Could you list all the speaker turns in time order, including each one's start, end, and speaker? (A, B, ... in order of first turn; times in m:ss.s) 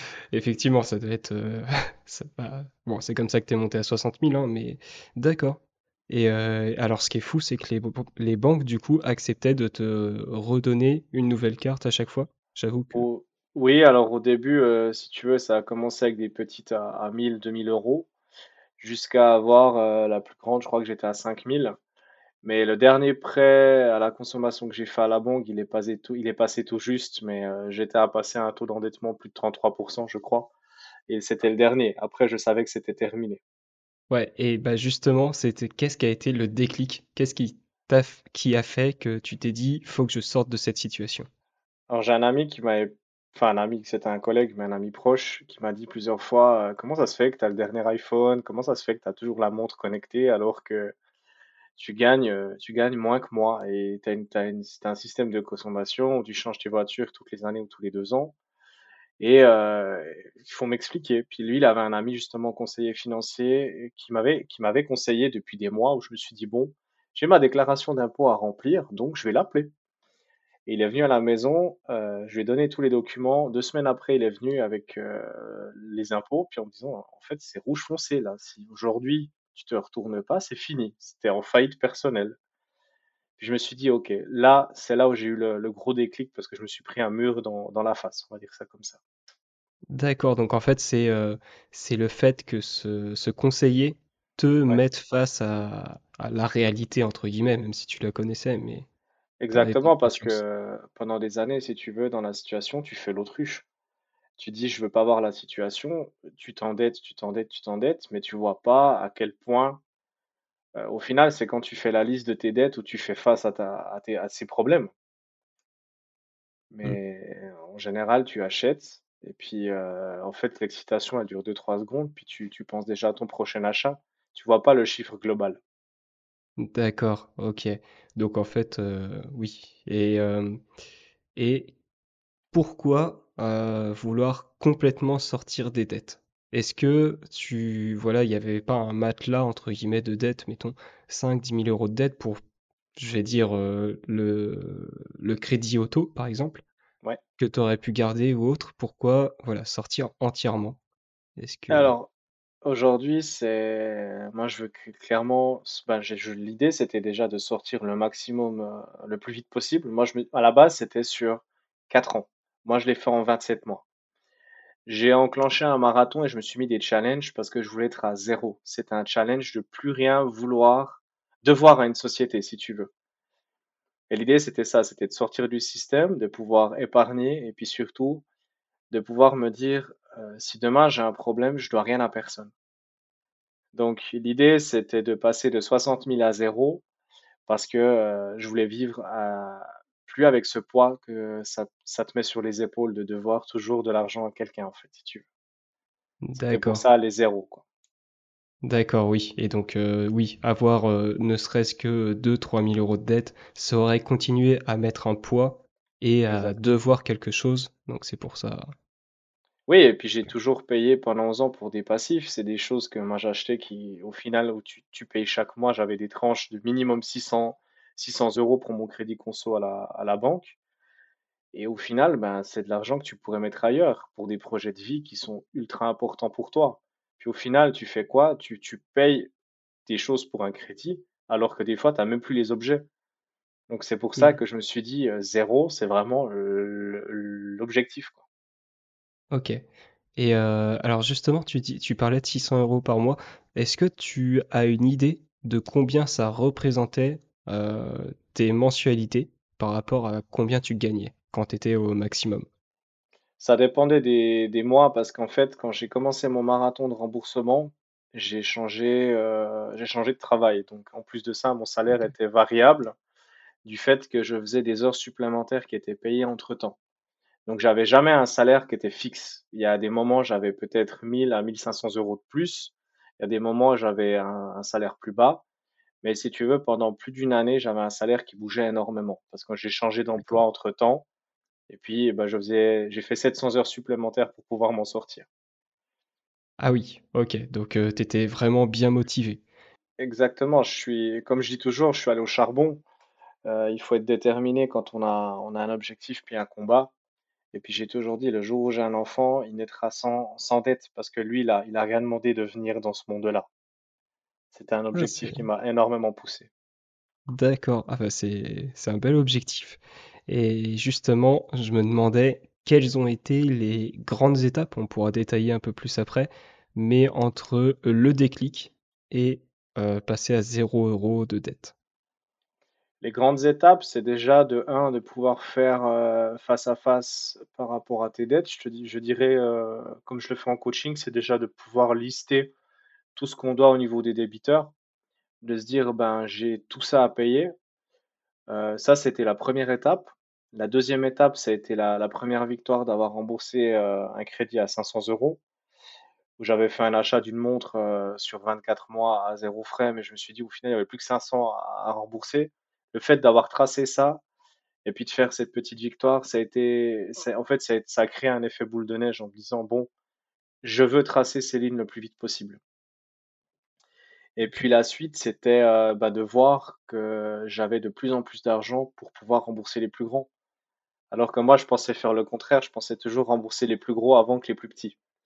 0:00.3-0:13.1 A
0:13.0-0:18.1 B
0:18.8-0:21.8 B
0:22.4-0:30.5 B
0:31.1-0:33.4 B
0:34.1-0:41.3 A
0:41.9-0:51.0 B
0:51.8-0:58.3 B
0:59.2-1:09.7 B
1:10.7-1:22.4 B
1:23.4-1:29.0 B
1:29.9-1:38.9 A
1:39.4-1:43.7 B
1:39.5-1:40.4 A
1:44.4-1:49.8 B
1:50.8-1:54.9 B
1:56.7-2:05.6 B
2:06.6-2:10.6 A
2:11.4-2:11.7 A
2:12.5-2:22.4 A
2:23.0-2:26.6 A
2:27.4-2:30.8 A
2:31.4-2:32.0 A
2:31.7-2:32.1 B
2:32.6-2:43.8 B
2:44.9-2:52.9 B
2:54.1-2:58.2 B
2:58.9-3:02.5 B
3:03.7-3:06.8 B
3:07.5-3:15.3 B
3:16.2-3:16.8 A
3:16.4-3:17.6 B
3:18.6-3:28.7 A
3:26.3-3:26.7 B
3:29.7-3:40.6 B
3:41.5-3:49.3 B
3:49.9-3:52.9 B
3:53.7-3:58.2 B
3:59.3-3:59.6 A
4:00.2-4:12.5 A
4:13.4-4:23.0 B
4:23.6-4:26.8 B
4:27.5-4:35.4 B
4:36.0-4:41.0 B
4:41.7-4:45.3 B
4:46.6-4:49.4 A
4:50.0-4:52.8 B
4:53.4-4:56.9 B
4:57.5-5:03.5 B
5:04.5-5:06.5 B
5:04.9-5:05.4 A
5:07.3-5:21.7 A
5:23.0-5:32.5 B
5:33.2-5:34.7 B
5:35.4-5:37.5 B
5:38.5-5:45.4 B
5:46.4-5:54.2 B
5:54.8-5:59.9 B
6:00.6-6:02.6 B
6:04.4-6:10.3 B
6:11.1-6:15.0 B